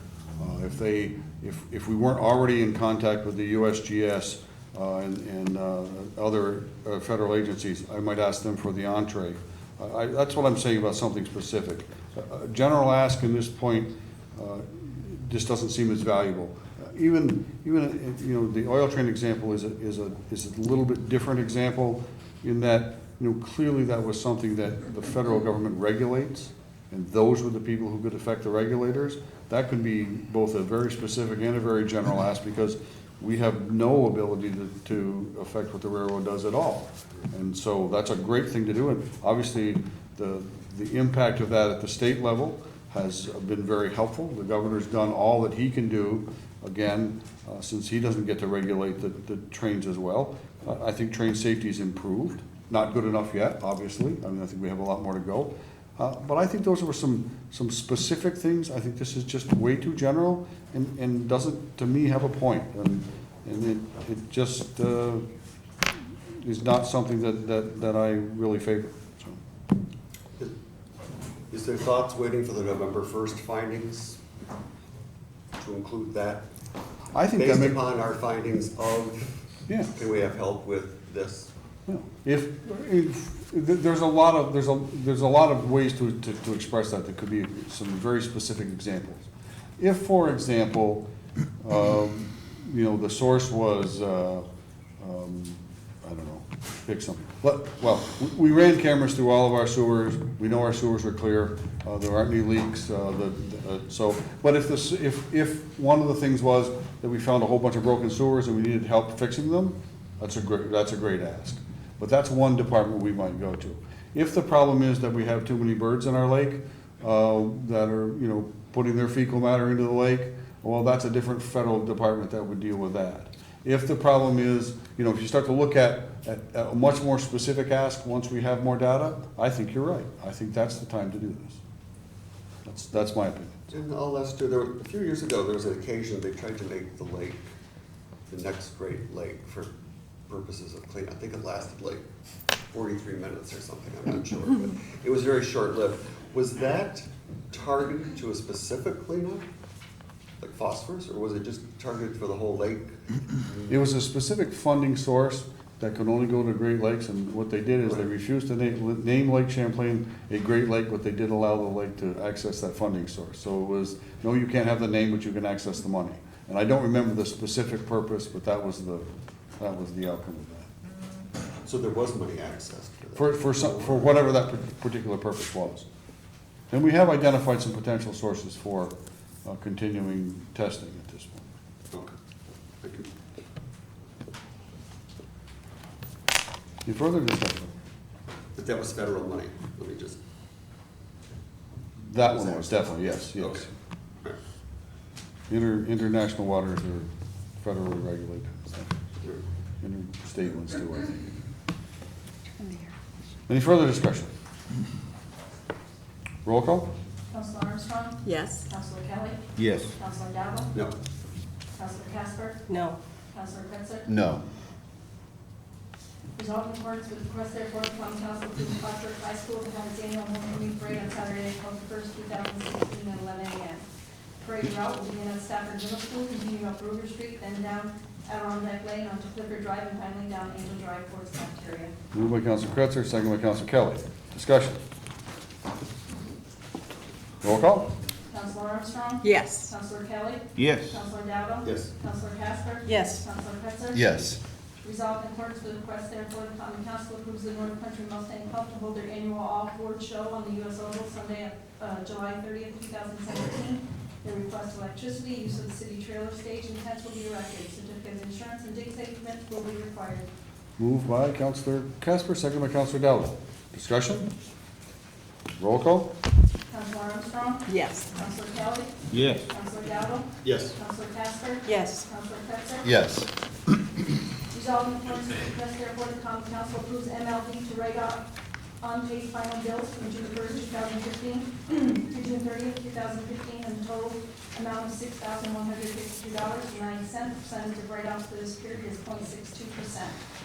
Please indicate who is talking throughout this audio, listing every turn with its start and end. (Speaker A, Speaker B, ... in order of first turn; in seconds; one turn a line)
Speaker A: 0.4-65.2
Speaker A: 66.4-69.4
Speaker B: 71.5-74.2
Speaker B: 75.6-76.5
Speaker A: 77.1-77.8
Speaker B: 77.3-79.4
Speaker B: 79.9-81.5
Speaker A: 81.9-91.0
Speaker A: 91.6-94.5
Speaker A: 95.0-131.6
Speaker A: 132.6-133.6
Speaker B: 133.7-137.5
Speaker B: 138.3-139.7
Speaker B: 140.3-142.0
Speaker B: 142.7-149.4
Speaker B: 150.4-153.2
Speaker A: 153.7-169.1
Speaker A: 169.6-170.7
Speaker B: 171.6-174.1
Speaker A: 173.2-175.8
Speaker A: 176.7-178.9
Speaker A: 179.4-181.4
Speaker B: 182.8-183.1
Speaker A: 186.8-187.7
Speaker B: 188.5-190.2
Speaker A: 192.0-193.7
Speaker B: 192.2-192.8
Speaker B: 193.4-193.6
Speaker A: 195.5-197.1
Speaker A: 197.6-198.9
Speaker A: 199.8-201.2
Speaker C: 202.6-202.9
Speaker A: 203.5-204.3
Speaker A: 206.4-206.9
Speaker D: 207.3-209.4
Speaker C: 208.2-208.6
Speaker E: 209.6-209.9
Speaker D: 209.9-210.7
Speaker D: 211.7-212.7
Speaker C: 212.7-213.0
Speaker D: 213.3-214.1
Speaker E: 214.1-214.4
Speaker D: 216.4-223.8
Speaker D: 224.4-231.9
Speaker A: 232.1-234.8
Speaker A: 237.4-237.9
Speaker D: 238.3-244.3
Speaker C: 239.2-239.7
Speaker E: 240.6-241.0
Speaker B: 241.6-241.9
Speaker C: 242.9-243.2
Speaker E: 243.9-244.4
Speaker D: 244.8-260.3
Speaker A: 260.8-264.3
Speaker A: 265.6-266.1
Speaker D: 266.7-272.9
Speaker C: 267.7-268.1
Speaker E: 269.1-269.4
Speaker B: 270.4-270.8
Speaker C: 271.7-272.0
Speaker E: 272.8-273.3
Speaker D: 274.5-278.3
Speaker D: 278.8-290.2